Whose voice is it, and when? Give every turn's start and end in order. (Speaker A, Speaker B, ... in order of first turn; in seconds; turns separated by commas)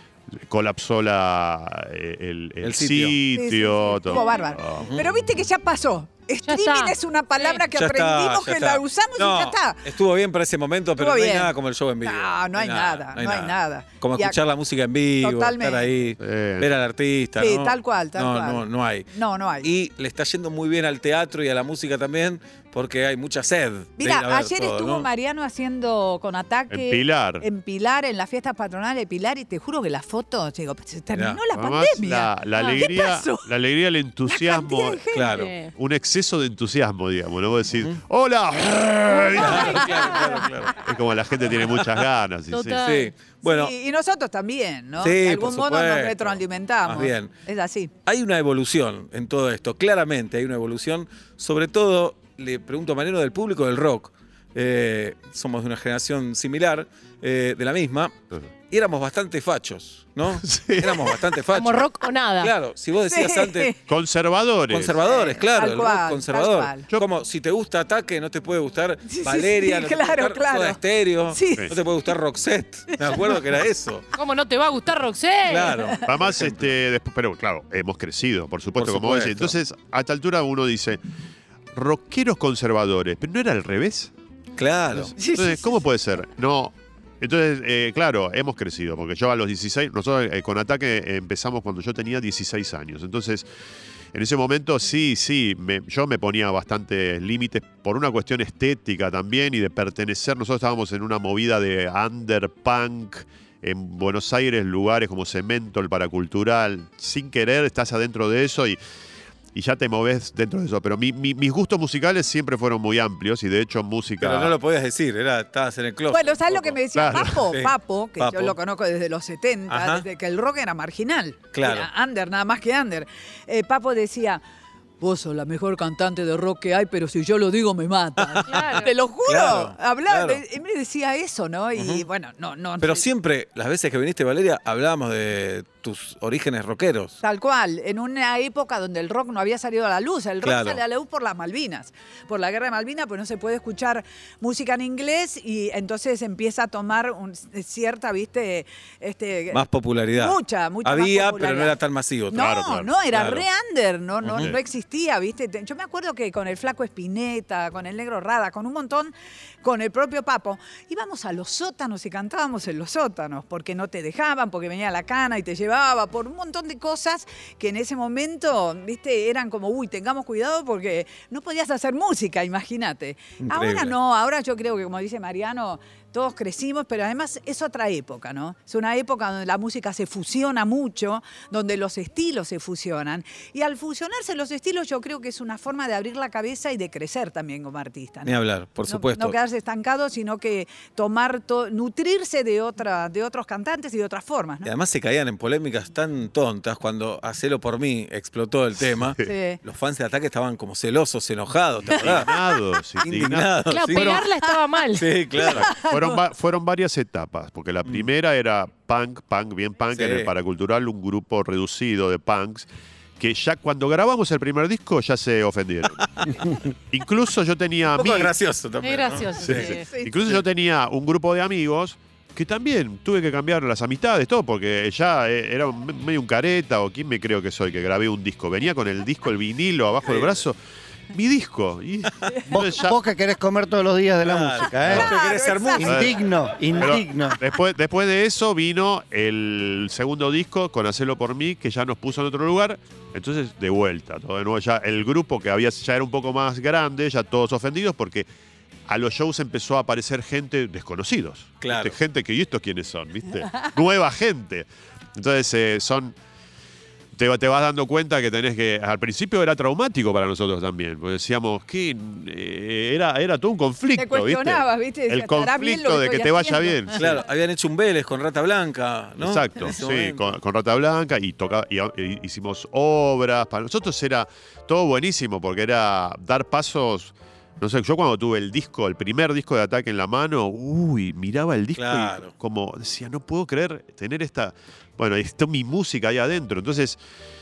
Speaker A: 0.3-5.4, Speaker B: 2.6-3.2, Speaker C: 3.3-9.8, Speaker B: 4.8-5.0, Speaker D: 6.5-6.9, Speaker B: 7.5-19.1, Speaker C: 10.9-11.5, Speaker C: 12.0-14.4, Speaker C: 15.2-16.0, Speaker A: 16.2-16.7, Speaker C: 17.4-19.7, Speaker B: 19.6-25.1, Speaker C: 24.0-33.5, Speaker A: 26.7-27.4, Speaker B: 31.1-31.4, Speaker A: 31.5-35.0, Speaker C: 34.3-35.5, Speaker B: 35.1-35.5, Speaker D: 35.3-35.7, Speaker A: 35.8-39.8, Speaker C: 39.3-40.6, Speaker B: 39.3-40.7, Speaker A: 40.7-42.8, Speaker B: 41.6-42.0, Speaker D: 42.5-43.1, Speaker B: 42.8-43.7, Speaker C: 43.4-47.9, Speaker B: 45.0-47.3, Speaker B: 48.0-58.1, Speaker B: 58.7-61.9, Speaker A: 60.4-61.2, Speaker D: 61.5-62.5, Speaker B: 62.4-63.7, Speaker C: 63.0-63.8, Speaker A: 63.9-65.0, Speaker B: 64.7-74.1, Speaker C: 65.0-66.9, Speaker C: 69.1-71.7, Speaker C: 72.9-73.4, Speaker D: 74.2-76.0, Speaker B: 75.5-76.6, Speaker A: 76.1-81.0, Speaker B: 78.8-79.5, Speaker A: 81.7-84.1, Speaker B: 84.6-85.1, Speaker A: 84.9-93.4, Speaker C: 85.2-85.8, Speaker A: 94.1-108.8, Speaker A: 109.5-114.5, Speaker B: 114.2-118.6, Speaker C: 116.1-124.4, Speaker A: 116.9-117.4, Speaker B: 119.7-120.0, Speaker B: 121.5-121.9, Speaker C: 125.0-133.1, Speaker B: 128.2-128.7, Speaker D: 128.5-128.9, Speaker B: 129.2-130.4, Speaker B: 131.8-132.0, Speaker B: 132.8-137.2, Speaker C: 137.2-151.7, Speaker B: 140.4-140.8, Speaker B: 149.5-152.4, Speaker C: 152.3-194.7, Speaker A: 152.3-152.9, Speaker B: 153.1-153.4, Speaker B: 154.2-154.5, Speaker B: 173.4-173.9, Speaker B: 188.2-189.3, Speaker B: 194.6-202.3, Speaker C: 199.2-199.6, Speaker A: 201.9-204.2, Speaker B: 203.0-204.2, Speaker D: 203.7-205.1, Speaker B: 204.9-205.7, Speaker C: 205.3-206.2, Speaker A: 205.5-212.7, Speaker B: 209.9-210.3, Speaker A: 213.2-216.3, Speaker B: 216.0-216.4, Speaker A: 216.9-218.3, Speaker B: 217.9-219.7, Speaker D: 218.8-219.8, Speaker A: 219.4-230.5, Speaker C: 219.7-220.3, Speaker B: 230.1-230.4, Speaker A: 231.1-233.0, Speaker C: 232.3-232.5, Speaker E: 232.5-235.1, Speaker B: 234.2-236.1, Speaker A: 234.8-235.1, Speaker C: 234.9-236.2, Speaker E: 235.8-237.4, Speaker A: 235.8-236.1, Speaker A: 236.7-248.3, Speaker A: 248.9-256.1, Speaker B: 251.6-251.9, Speaker A: 257.1-267.2, Speaker C: 263.9-267.1, Speaker B: 266.9-270.3, Speaker A: 269.2-287.0, Speaker B: 281.8-282.3